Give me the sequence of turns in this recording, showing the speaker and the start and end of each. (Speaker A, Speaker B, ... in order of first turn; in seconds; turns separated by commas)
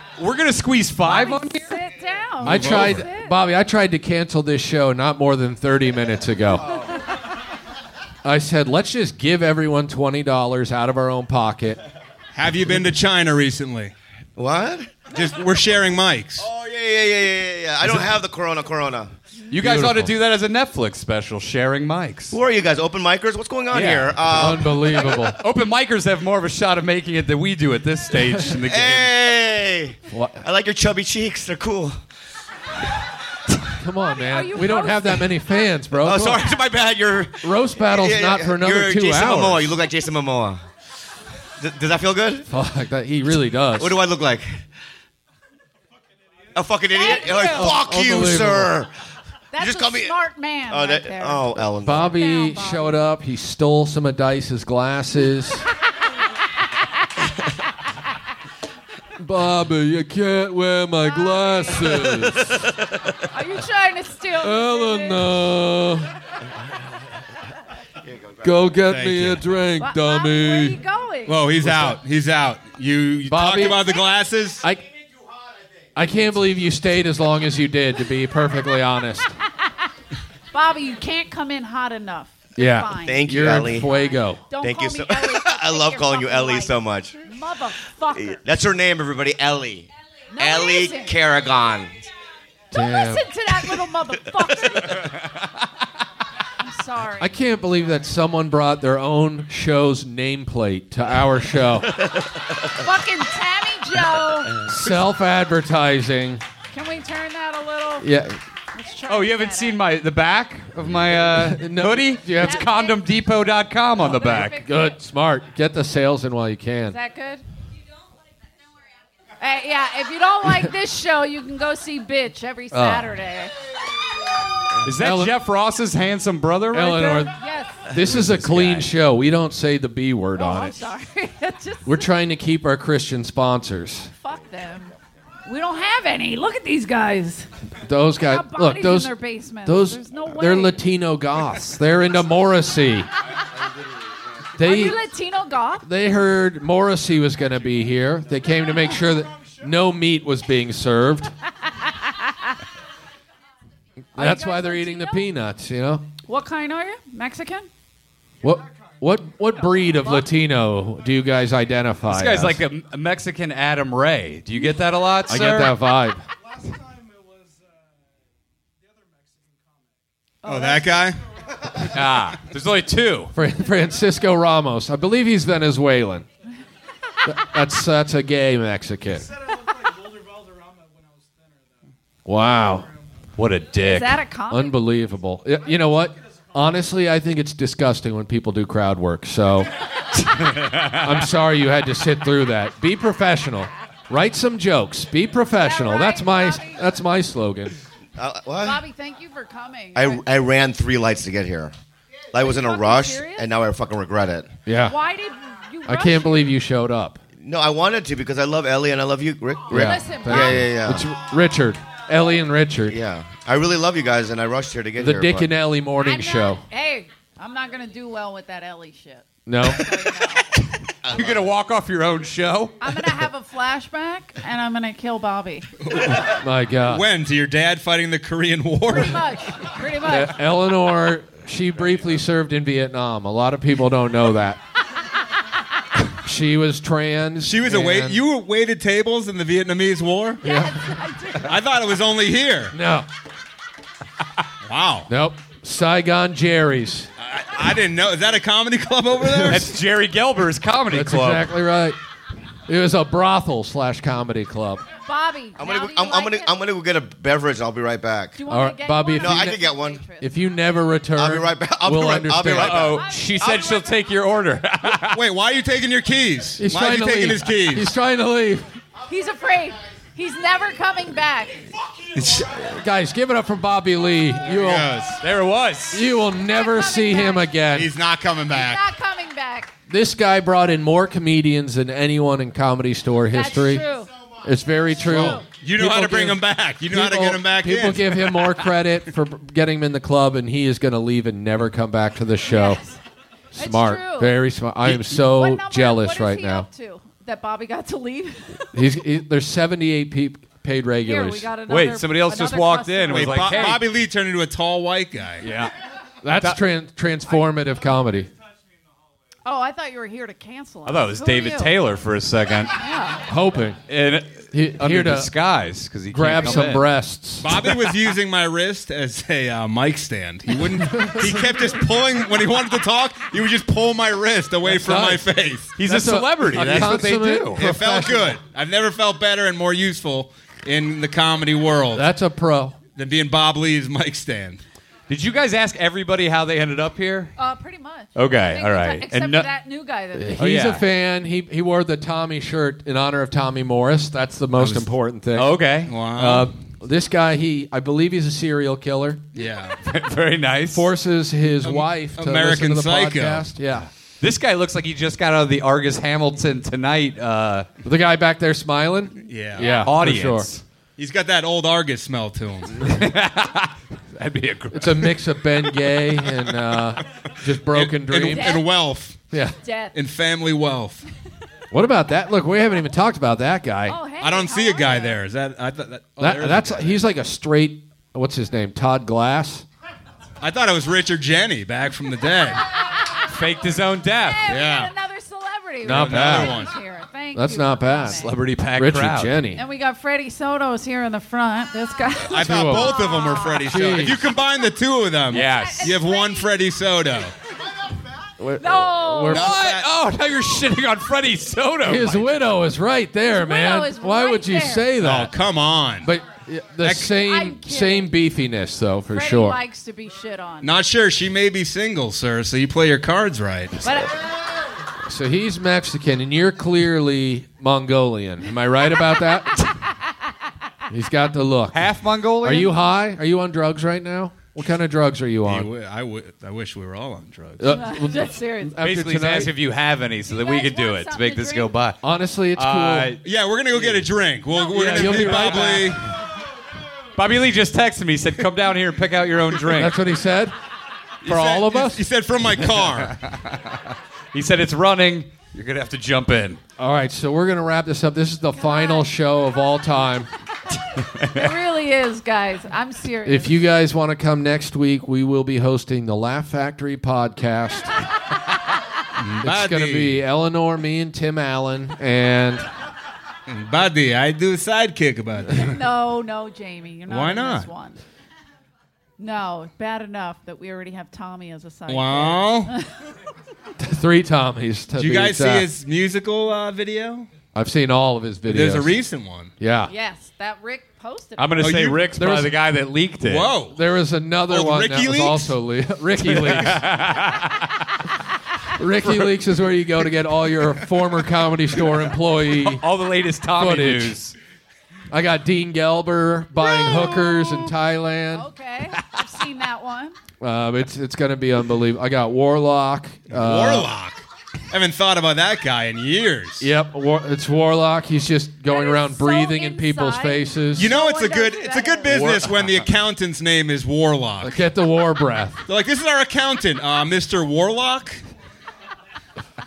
Speaker A: 0.2-1.8, Speaker B: 1.0-3.4, Speaker C: 2.4-6.7, Speaker D: 2.5-3.0, Speaker C: 8.2-11.8, Speaker D: 12.3-13.9, Speaker E: 14.4-15.1, Speaker D: 15.1-16.5, Speaker E: 16.4-19.1, Speaker A: 19.5-22.4, Speaker C: 19.5-20.1, Speaker E: 22.3-25.1, Speaker A: 23.7-24.5, Speaker C: 24.3-25.4, Speaker A: 25.1-29.1, Speaker E: 28.7-32.0, Speaker C: 30.1-30.4, Speaker C: 33.8-36.5, Speaker B: 34.0-35.4, Speaker E: 36.0-40.6, Speaker C: 37.4-39.8, Speaker E: 41.6-42.5, Speaker C: 42.5-44.0, Speaker E: 43.8-44.6, Speaker F: 45.9-47.0, Speaker E: 46.5-48.9, Speaker B: 46.9-47.8, Speaker C: 47.5-48.8, Speaker B: 49.5-53.0, Speaker E: 49.6-50.2, Speaker E: 50.7-52.1, Speaker C: 51.8-55.6, Speaker C: 59.2-62.7, Speaker B: 61.1-62.1, Speaker E: 62.0-63.2, Speaker B: 63.3-65.3, Speaker C: 64.4-66.1, Speaker E: 68.0-68.8, Speaker C: 68.4-70.8, Speaker D: 68.9-69.4, Speaker B: 69.8-71.5, Speaker D: 71.3-74.7, Speaker C: 71.6-72.0, Speaker C: 73.3-73.9, Speaker C: 76.0-79.4, Speaker B: 80.5-83.4, Speaker C: 82.6-84.5, Speaker E: 83.0-83.9, Speaker B: 84.5-88.4, Speaker E: 84.6-87.2, Speaker E: 88.2-91.9, Speaker B: 90.3-91.2, Speaker C: 92.7-93.3, Speaker B: 92.7-95.1, Speaker B: 96.6-97.4, Speaker C: 97.2-102.0, Speaker B: 102.8-104.6, Speaker C: 104.6-106.4, Speaker B: 106.7-108.1, Speaker C: 108.0-108.4, Speaker B: 108.7-109.8, Speaker A: 109.1-114.6, Speaker C: 111.4-112.7, Speaker B: 112.3-113.0, Speaker B: 114.0-114.9, Speaker C: 114.3-117.0, Speaker B: 116.9-117.4, Speaker B: 119.4-123.5, Speaker A: 122.7-123.1, Speaker A: 124.8-127.3, Speaker C: 124.9-125.4, Speaker C: 126.7-127.3, Speaker B: 127.3-127.9, Speaker C: 127.9-130.8, Speaker A: 127.9-128.9, Speaker B: 130.4-132.1, Speaker C: 131.9-134.1, Speaker B: 134.2-134.9, Speaker B: 135.5-137.5, Speaker C: 137.8-143.1, Speaker B: 138.2-140.8, Speaker C: 144.6-145.0, Speaker B: 144.6-145.9, Speaker C: 145.8-151.3, Speaker F: 148.8-150.0, Speaker B: 151.8-152.6, Speaker C: 154.2-156.1, Speaker B: 154.2-155.3, Speaker B: 156.3-157.7, Speaker F: 158.4-161.7, Speaker C: 158.4-162.6, Speaker B: 159.8-160.3, Speaker A: 162.1-165.7, Speaker C: 165.3-166.2, Speaker F: 166.4-170.1, Speaker B: 170.4-171.0, Speaker D: 170.5-171.2, Speaker F: 170.7-171.9, Speaker A: 171.9-173.3, Speaker C: 173.3-176.3, Speaker C: 177.3-179.3, Speaker F: 179.1-183.1, Speaker C: 182.3-182.9, Speaker A: 183.4-184.2, Speaker B: 183.8-184.9, Speaker C: 184.5-189.7, Speaker F: 185.6-186.9, Speaker A: 190.3-191.1, Speaker C: 190.9-197.8, Speaker B: 195.6-196.8, Speaker E: 198.2-198.8, Speaker B: 198.6-200.2, Speaker E: 199.9-201.7, Speaker E: 202.3-204.5, Speaker B: 202.3-203.5, Speaker C: 204.7-205.0, Speaker B: 204.8-206.5, Speaker C: 205.9-207.2, Speaker E: 207.4-211.1, Speaker C: 209.7-213.0, Speaker B: 209.7-210.7, Speaker E: 212.9-215.5, Speaker C: 215.0-216.6, Speaker B: 216.0-220.5, Speaker C: 219.5-219.9, Speaker E: 221.0-221.5, Speaker A: 221.1-222.8, Speaker B: 222.8-225.7, Speaker D: 225.8-229.2, Speaker C: 226.4-227.1, Speaker B: 228.9-230.4, Speaker C: 230.0-234.6, Speaker C: 236.1-238.2, Speaker D: 237.4-240.4, Speaker B: 240.4-241.6, Speaker C: 240.4-241.0, Speaker D: 241.4-242.7, Speaker C: 242.7-243.1, Speaker D: 244.7-245.1, Speaker C: 245.1-247.1, Speaker D: 247.2-249.7, Speaker C: 249.3-249.6, Speaker A: 249.5-251.5, Speaker C: 250.9-252.0, Speaker C: 252.7-254.8, Speaker B: 255.0-256.6, Speaker E: 255.6-258.4, Speaker B: 258.4-260.3, Speaker C: 258.5-259.6, Speaker E: 259.1-260.0, Speaker C: 260.2-263.0, Speaker E: 261.2-263.7, Speaker A: 262.5-265.2, Speaker B: 263.0-263.8, Speaker D: 265.1-267.9, Speaker C: 266.6-268.8, Speaker B: 269.1-271.7, Speaker D: 272.1-272.5, Speaker C: 272.4-274.9, Speaker D: 274.4-275.2, Speaker A: 275.2-276.1, Speaker C: 275.9-277.9, Speaker B: 276.4-277.6, Speaker D: 277.7-278.8, Speaker B: 278.5-279.7, Speaker C: 279.9-283.9, Speaker B: 283.3-284.1, Speaker C: 284.4-292.8, Speaker B: 285.1-285.4, Speaker D: 285.2-288.5, Speaker B: 292.4-293.0, Speaker C: 293.6-296.7, Speaker B: 293.6-294.4, Speaker B: 295.1-298.6, Speaker C: 298.7-301.5, Speaker B: 301.1-303.8, Speaker A: 301.7-303.9, Speaker D: 303.1-305.5, Speaker A: 305.4-305.7, Speaker C: 305.4-305.7, Speaker C: 306.2-308.3, Speaker F: 307.3-309.4, Speaker B: 309.4-311.8, Speaker A: 310.9-312.8, Speaker B: 312.8-313.2, Speaker C: 313.3-313.8, Speaker A: 313.9-316.9, Speaker C: 314.5-315.3, Speaker C: 316.1-317.7, Speaker D: 317.4-325.7, Speaker C: 320.9-321.4, Speaker C: 324.6-325.3, Speaker A: 325.8-327.6, Speaker C: 325.8-328.4, Speaker D: 327.6-332.1, Speaker C: 331.9-332.8, Speaker D: 333.0-334.6, Speaker A: 335.1-337.3, Speaker B: 337.4-340.4, Speaker A: 338.1-339.5, Speaker C: 340.1-345.6, Speaker A: 340.4-340.8, Speaker A: 344.6-346.5, Speaker D: 345.9-346.5, Speaker C: 346.2-349.2, Speaker D: 349.4-349.8, Speaker A: 349.8-350.9, Speaker C: 350.7-353.9, Speaker D: 351.6-353.5, Speaker A: 354.2-357.7, Speaker C: 357.9-360.5, Speaker D: 359.2-359.8, Speaker A: 359.6-360.6, Speaker D: 361.0-362.9, Speaker A: 362.9-365.1, Speaker C: 364.7-368.6, Speaker D: 367.7-369.2, Speaker B: 368.3-368.7, Speaker C: 369.3-369.6, Speaker B: 369.6-370.0, Speaker D: 369.9-371.0, Speaker C: 371.7-374.0, Speaker B: 373.9-375.2, Speaker D: 374.2-377.0, Speaker C: 376.2-379.6, Speaker D: 380.4-382.6, Speaker A: 383.3-384.5, Speaker B: 384.2-388.3, Speaker D: 384.5-384.9, Speaker C: 385.8-386.6, Speaker D: 385.9-386.7, Speaker C: 387.4-389.6, Speaker A: 388.1-389.4, Speaker B: 389.6-394.0, Speaker D: 392.3-397.3, Speaker C: 392.3-393.0, Speaker C: 393.6-394.3, Speaker A: 395.3-396.0, Speaker B: 395.4-396.6, Speaker C: 398.4-399.5, Speaker B: 398.6-399.5, Speaker A: 399.3-402.3, Speaker D: 399.3-399.9, Speaker C: 401.8-405.4, Speaker B: 403.3-404.9, Speaker D: 405.0-406.1, Speaker C: 406.0-409.6, Speaker D: 406.8-407.1, Speaker B: 407.1-408.1, Speaker B: 409.1-410.7, Speaker D: 410.6-413.8, Speaker B: 413.8-414.2, Speaker C: 415.1-419.6, Speaker C: 420.9-425.7, Speaker A: 421.7-422.7, Speaker D: 425.5-427.8, Speaker C: 427.6-429.5, Speaker B: 427.7-428.8, Speaker A: 428.8-432.0, Speaker B: 430.3-431.8, Speaker C: 432.0-433.1, Speaker A: 432.6-433.2, Speaker D: 433.2-436.1, Speaker A: 433.7-434.1, Speaker C: 434.7-436.0, Speaker A: 435.1-435.4, Speaker B: 435.3-435.8, Speaker A: 437.2-440.0, Speaker C: 439.7-440.6, Speaker D: 441.2-443.2, Speaker C: 441.2-442.0, Speaker A: 442.9-446.6, Speaker C: 446.8-450.3, Speaker B: 448.5-449.1, Speaker A: 451.2-451.5, Speaker B: 451.2-453.6, Speaker C: 453.2-457.9, Speaker D: 459.2-460.2, Speaker C: 459.4-462.7, Speaker D: 463.5-465.8, Speaker B: 465.5-468.0, Speaker D: 467.1-467.7, Speaker B: 469.2-472.9, Speaker D: 471.9-472.7, Speaker C: 473.8-475.7, Speaker D: 474.9-477.3, Speaker C: 477.5-479.0, Speaker D: 478.5-479.5, Speaker C: 479.6-479.9, Speaker B: 479.9-481.7, Speaker A: 481.4-483.5, Speaker D: 481.6-482.1, Speaker C: 482.2-482.5, Speaker D: 483.2-483.8, Speaker C: 483.7-486.8, Speaker D: 484.5-485.5, Speaker A: 486.2-487.9, Speaker C: 488.8-492.8, Speaker A: 489.0-489.3, Speaker A: 492.6-494.4, Speaker C: 493.6-494.2, Speaker C: 495.1-498.5, Speaker B: 496.7-497.6, Speaker B: 498.3-500.2, Speaker C: 500.4-503.9, Speaker D: 503.3-506.7, Speaker C: 506.6-510.9, Speaker B: 508.7-512.1, Speaker D: 510.8-514.6, Speaker C: 512.1-512.4, Speaker C: 514.4-515.6, Speaker D: 515.7-518.2